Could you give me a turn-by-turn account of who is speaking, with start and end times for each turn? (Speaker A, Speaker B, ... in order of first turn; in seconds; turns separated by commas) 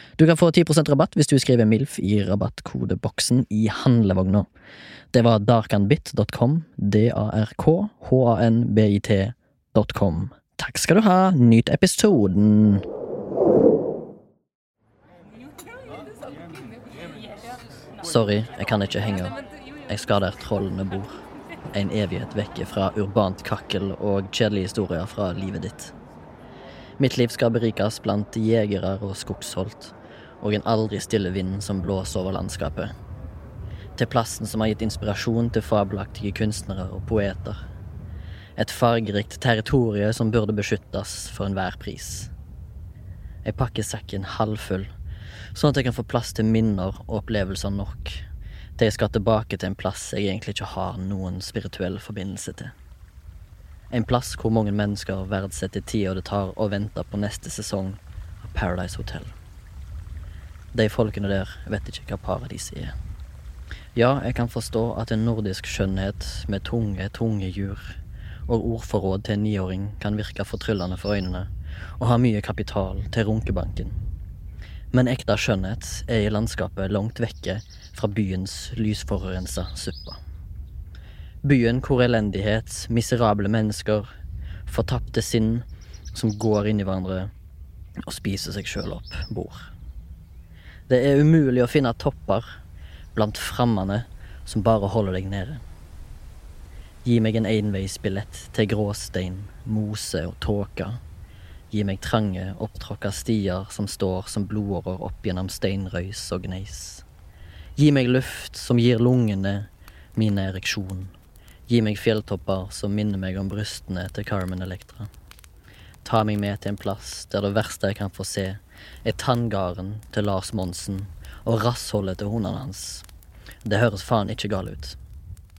Speaker A: 0.2-4.5, Speaker A: 5.1-12.8, Speaker A: 18.0-19.3, Speaker A: 19.9-21.2, Speaker A: 21.7-25.9, Speaker A: 27.0-32.9, Speaker A: 34.0-37.6, Speaker A: 38.6-42.3, Speaker A: 43.5-44.9, Speaker A: 45.5-48.2, Speaker A: 48.8-52.7, Speaker A: 53.9-59.3, Speaker A: 60.7-62.9, Speaker A: 64.0-74.0, Speaker A: 74.9-80.2, Speaker A: 81.4-84.1, Speaker A: 84.7-87.3, Speaker A: 88.0-89.7, Speaker A: 90.9-92.5, Speaker A: 93.2-95.6, Speaker A: 97.0-101.0, Speaker A: 101.7-107.0, Speaker A: 107.8-111.1, Speaker A: 111.7-115.1, Speaker A: 116.0-123.0, Speaker A: 123.7-125.0